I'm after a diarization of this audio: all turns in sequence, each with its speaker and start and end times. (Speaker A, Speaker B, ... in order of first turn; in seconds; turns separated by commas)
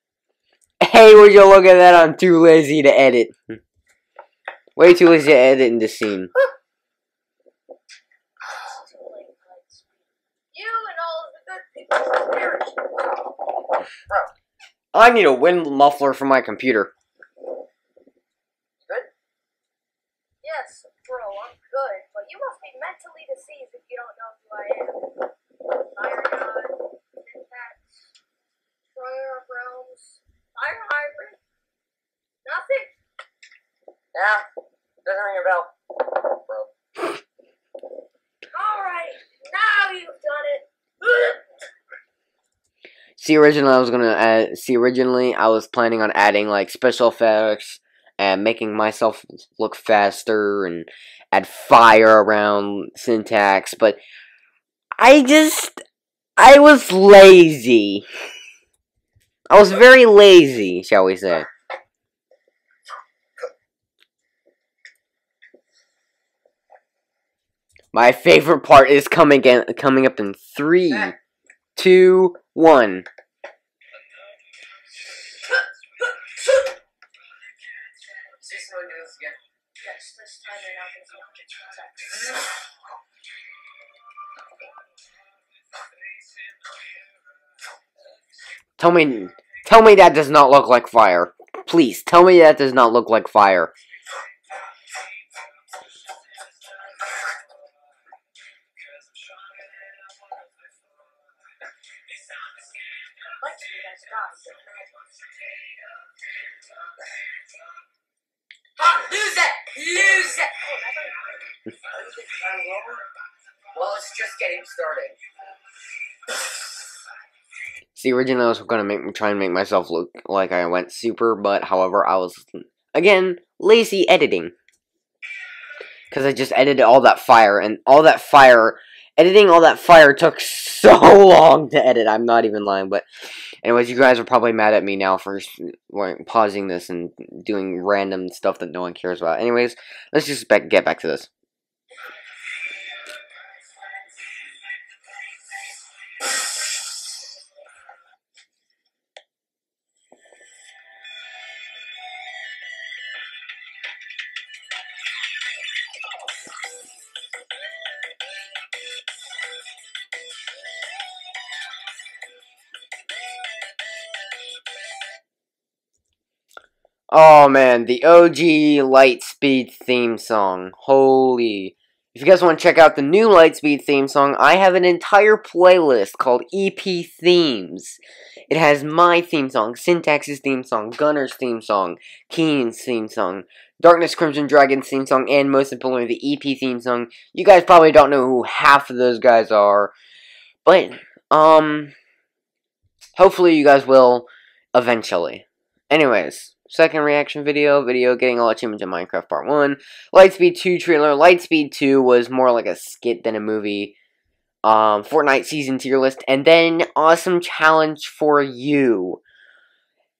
Speaker A: 0.8-3.6, Speaker A: 4.8-6.3, Speaker B: 8.5-9.9, Speaker B: 10.5-13.3, Speaker A: 14.9-16.9, Speaker C: 18.8-19.1, Speaker B: 20.4-25.3, Speaker B: 25.9-27.8, Speaker B: 28.9-31.4, Speaker B: 32.4-32.9, Speaker C: 34.1-34.4, Speaker C: 35.0-35.7, Speaker C: 36.3-36.7, Speaker B: 38.5-41.4, Speaker A: 43.2-54.0, Speaker A: 55.0-55.8, Speaker A: 56.4-58.0, Speaker A: 59.5-61.5, Speaker A: 67.9-71.2, Speaker A: 71.8-73.1, Speaker C: 78.3-79.4, Speaker B: 79.8-82.5, Speaker A: 88.8-93.7, Speaker B: 103.4-105.1, Speaker B: 108.8-111.3, Speaker C: 112.1-112.8, Speaker C: 113.7-115.2, Speaker A: 118.0-124.5, Speaker A: 126.1-133.0, Speaker A: 133.6-141.3, Speaker A: 167.1-189.9, Speaker A: 190.6-191.9, Speaker A: 193.2-203.9, Speaker A: 204.6-209.2